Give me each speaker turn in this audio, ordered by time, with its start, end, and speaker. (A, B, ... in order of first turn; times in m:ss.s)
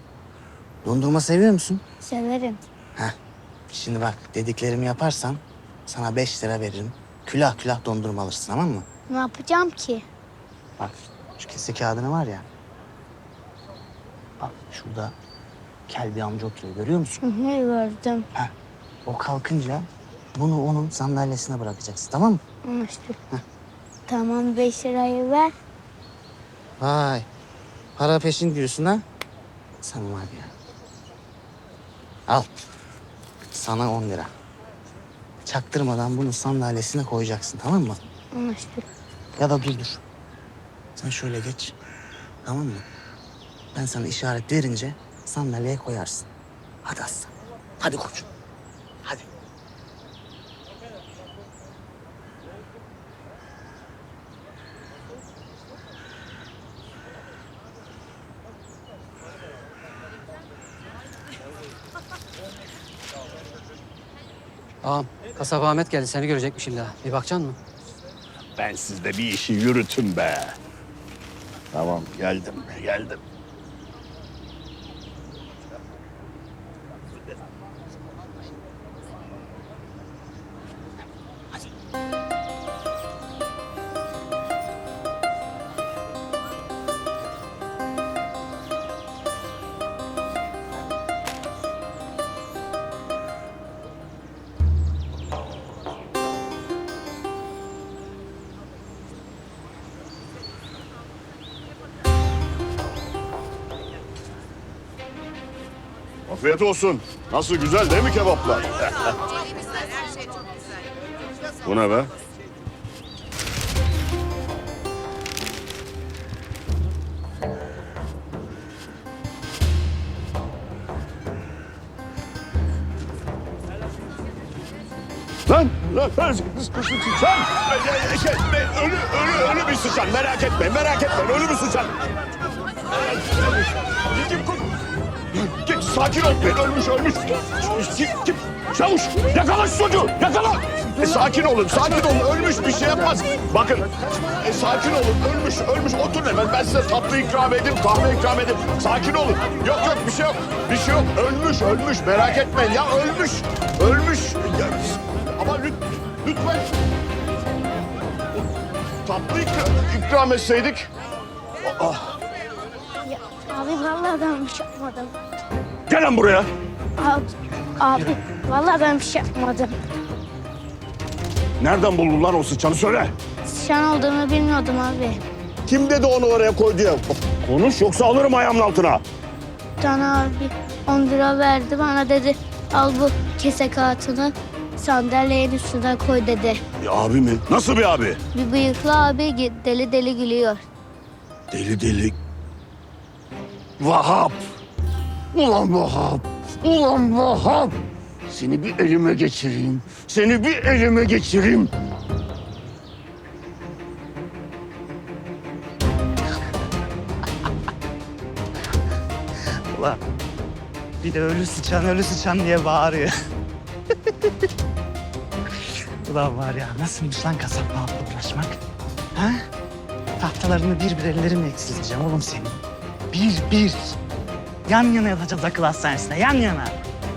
0:00.8-0:01.8 A
0:02.0-0:02.6 B
0:03.7-0:08.9 A
0:09.1-0:10.1 B
0:10.8-0:12.5 A
0:14.4-0:15.1 A
0:15.9-0:17.2 A
0:17.2-0:18.3 B
0:19.1-0:22.4 A
0:22.7-0:23.2 B
0:24.1-0:25.5 B
0:26.8-0:27.3 A
0:28.0-0:29.0 A
0:29.8-0:30.5 A
0:33.5-0:34.3 A
0:35.4-0:38.0 A
0:38.3-0:38.9 B
0:39.4-0:40.0 A
0:41.0-0:41.8 A
0:42.4-0:42.8 A
0:43.7-0:46.3 A
0:46.8-0:48.3 A
1:04.8-1:07.6 C
1:08.6-1:10.5 D
1:11.8-1:13.2 D
1:46.3-1:49.1 D
1:51.6-1:52.1 D
2:05.5-2:12.0 D
2:13.0-2:14.7 D
2:15.3-2:36.7 D
2:39.0-2:40.9 D
2:41.6-2:42.2 D
2:43.0-2:45.1 B
2:45.9-2:46.5 D
2:47.0-2:49.8 B
2:51.6-2:53.1 D
2:53.4-2:55.2 B
2:55.7-2:59.0 D
2:59.8-3:06.6 B
3:06.8-3:08.2 D
3:08.3-3:10.7 B
3:11.5-3:12.2 D
3:13.8-3:14.4 D
3:15.3-3:17.8 D
3:18.3-3:21.7 D
3:29.7-3:30.0 A
3:31.0-3:33.1 A
3:34.0-3:34.3 A
3:36.0-3:38.6 A
3:39.1-3:39.5 A
3:40.2-3:44.0 A
3:44.7-3:46.8 A